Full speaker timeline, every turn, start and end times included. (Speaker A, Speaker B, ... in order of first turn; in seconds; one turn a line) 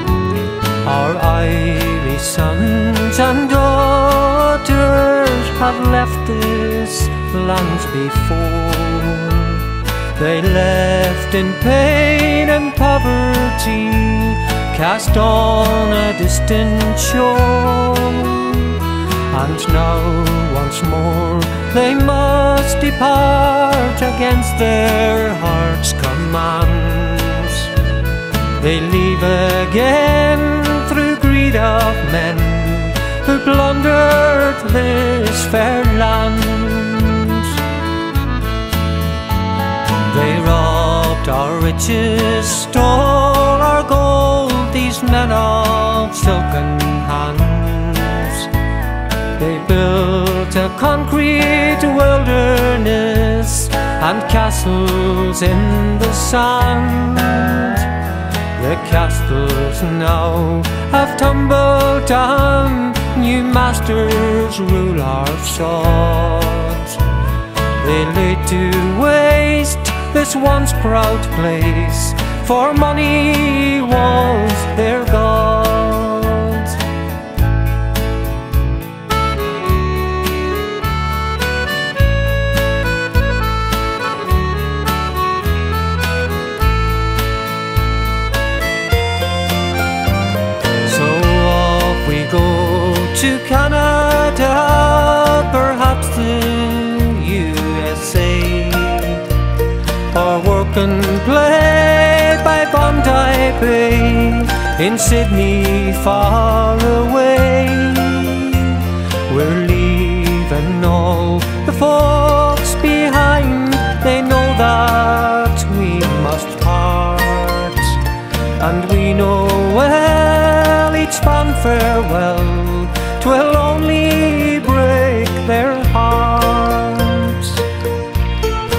Speaker A: 0.8-27.8
Speaker A: 28.5-37.6
Speaker A: 40.0-48.5
Speaker A: 49.4-67.2
Speaker A: 67.7-76.9
Speaker A: 90.8-99.4
Speaker A: 100.1-127.7